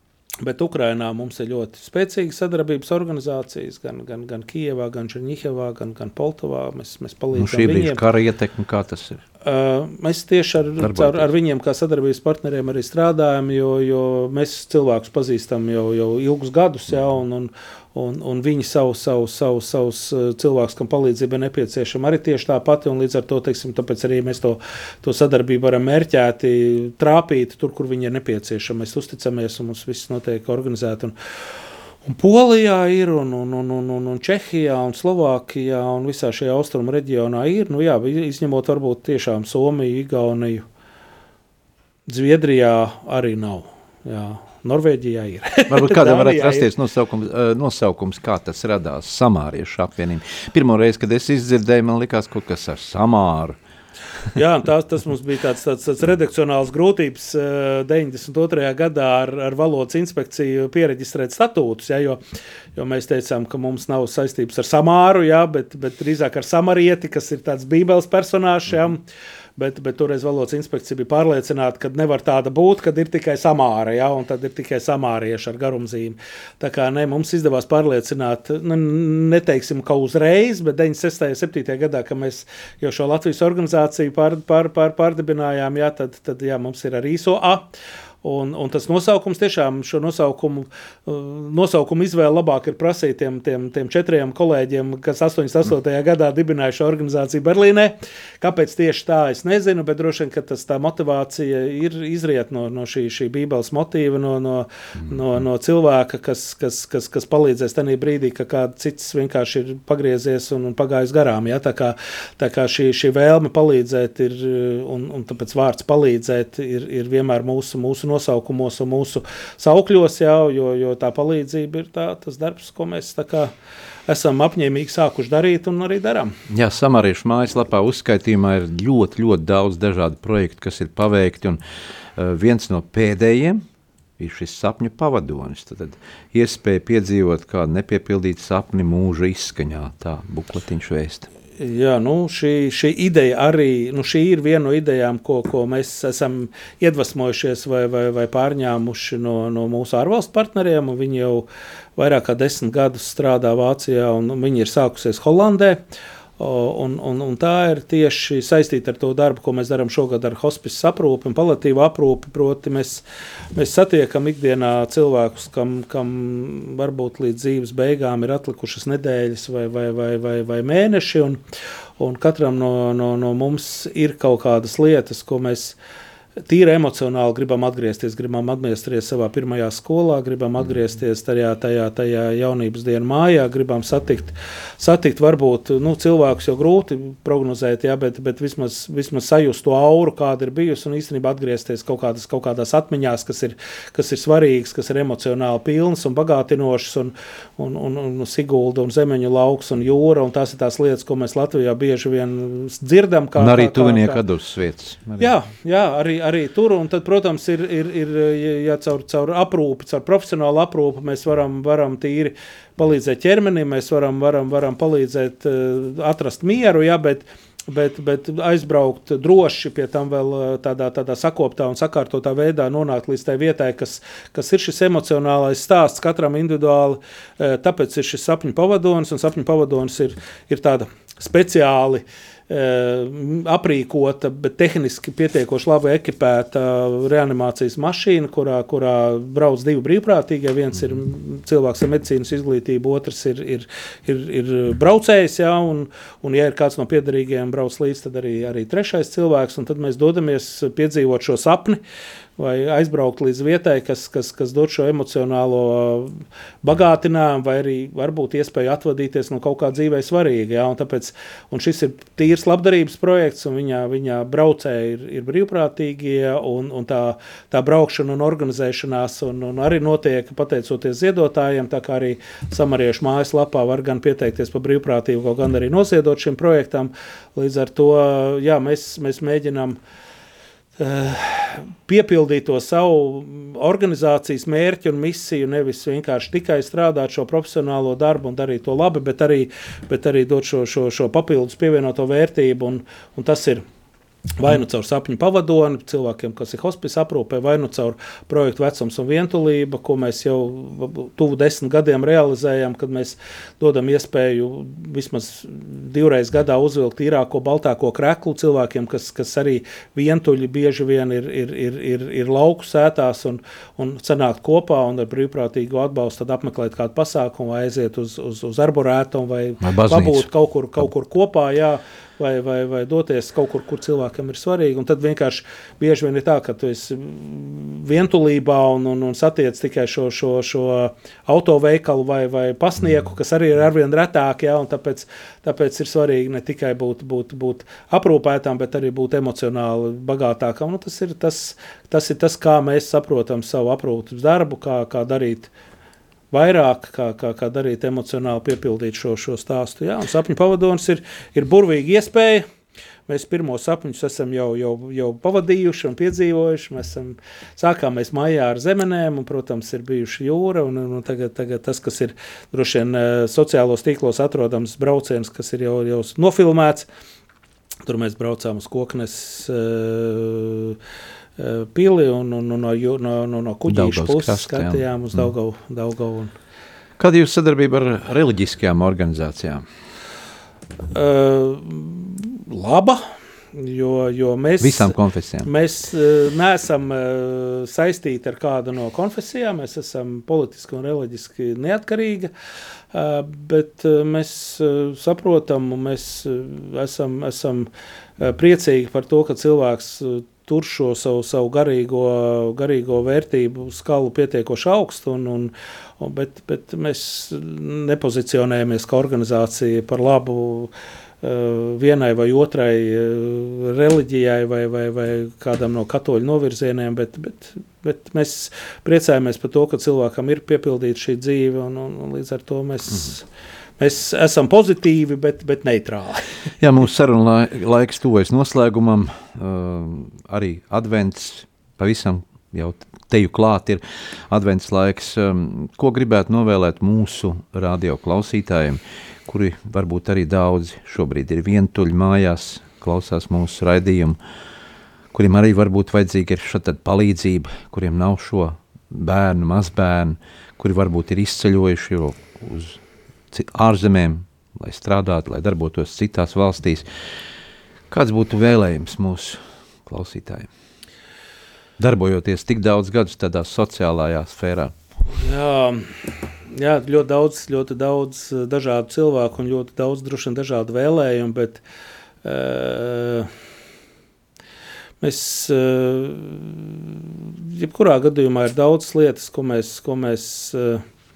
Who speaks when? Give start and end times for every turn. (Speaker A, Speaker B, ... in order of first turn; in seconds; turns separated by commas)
Speaker A: 0.4-8.0, Speaker B: 7.3-9.2, Speaker A: 9.4-31.1, Speaker B: 10.8-11.3, Speaker A: 32.0-40.6, Speaker A: 42.1-46.7, Speaker B: 45.7-53.6, Speaker A: 54.3-62.2, Speaker A: 62.8-69.0, Speaker A: 69.6-87.7, Speaker A: 88.2-123.5, Speaker A: 124.1-126.4, Speaker B: 126.5-131.6, Speaker B: 132.2-133.6, Speaker B: 134.2-141.3, Speaker A: 141.6-151.4, Speaker A: 152.0-155.8, Speaker A: 156.4-163.0, Speaker A: 163.5-171.4, Speaker A: 172.0-175.8, Speaker A: 176.5-204.2, Speaker B: 203.3-205.3, Speaker A: 205.2-251.8, Speaker A: 252.4-279.8, Speaker A: 280.8-293.6, Speaker A: 294.4-345.5, Speaker B: 319.6-320.3, Speaker A: 346.3-352.4, Speaker A: 353.1-366.9, Speaker A: 367.9-370.8, Speaker A: 371.4-376.3, Speaker B: 373.7-374.8, Speaker B: 377.0-379.6, Speaker A: 380.9-383.0, Speaker A: 383.5-392.3, Speaker B: 384.6-385.5, Speaker A: 392.9-397.7, Speaker A: 398.2-410.7, Speaker A: 411.2-423.2, Speaker A: 423.8-426.2, Speaker B: 426.6-444.2, Speaker B: 445.1-452.8, Speaker B: 453.3-456.9, Speaker B: 457.9-460.5, Speaker B: 461.8-464.7, Speaker A: 465.2-466.0, Speaker A: 466.5-471.6, Speaker A: 472.2-473.3, Speaker A: 475.0-480.8